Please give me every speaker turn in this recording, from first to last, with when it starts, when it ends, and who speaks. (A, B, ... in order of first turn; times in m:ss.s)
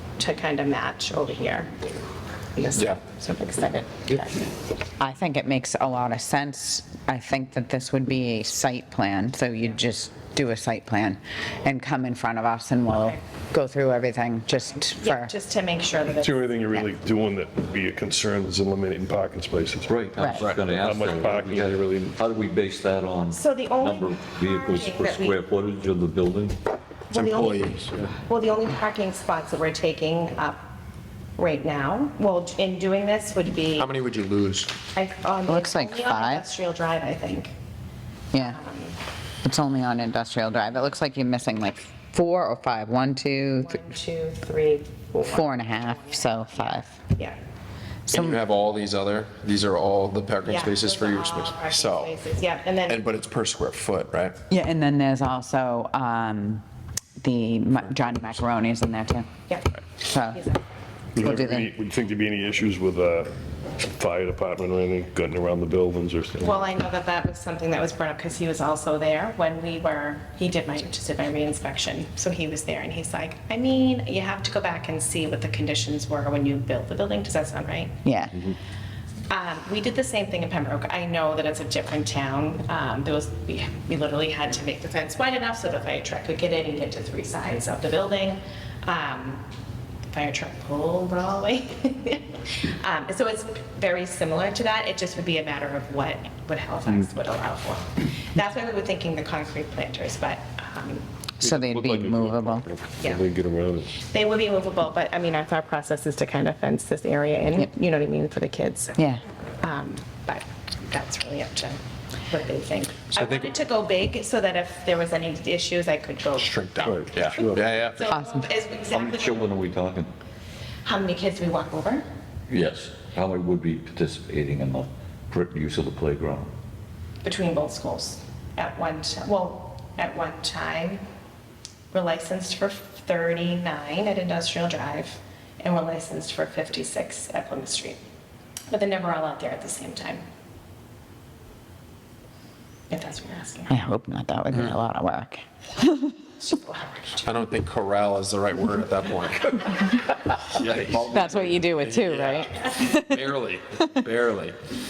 0:00.2-0:01.7 A
0:02.5-0:04.5 A
0:05.0-0:15.3 B
0:14.6-0:16.8 A
0:16.2-0:20.0 C
0:19.9-0:26.6 D
0:20.2-0:20.4 B
0:20.4-0:20.7 E
0:20.8-0:22.0 C
0:23.3-0:25.4 A
0:27.1-0:30.6 A
0:27.1-0:28.1 E
0:31.4-0:33.9 A
0:33.8-0:34.7 E
0:34.9-0:37.5 A
0:35.5-0:36.4 B
0:38.3-0:38.6 B
0:38.4-0:39.0 A
0:39.4-0:43.8 B
0:43.6-0:47.4 A
0:45.2-0:46.9 B
0:48.1-0:48.4 B
0:48.1-0:52.1 E
0:50.4-0:53.0 A
0:52.9-0:54.4 E
0:54.5-0:56.6 B
0:57.2-0:59.3 B
1:00.0-1:00.4 B
1:00.3-1:00.6 A
1:01.1-1:06.6 C
1:01.2-1:01.7 B
1:06.4-1:18.0 A
1:18.0-1:18.4 B
1:19.3-1:29.4 A
1:30.1-1:41.1 A
1:41.4-1:42.6 B
1:43.0-1:43.2 A
1:43.0-1:43.9 C
1:44.0-1:49.0 A
1:49.6-1:59.5 A
1:53.1-1:53.5 E
1:56.4-1:58.0 E
1:56.8-1:57.6 C
1:57.1-1:57.4 D
1:58.1-1:58.4 B
1:58.9-2:00.1 D
2:00.8-2:02.0 A
2:02.5-2:06.5 D
2:07.2-2:11.0 A
2:11.9-2:18.0 A
2:18.7-2:20.2 A
2:22.9-2:23.7 A
2:23.7-2:26.1 B
2:26.4-2:27.3 A
2:27.2-2:30.0 E
2:30.5-2:34.6 E
2:31.1-2:33.9 B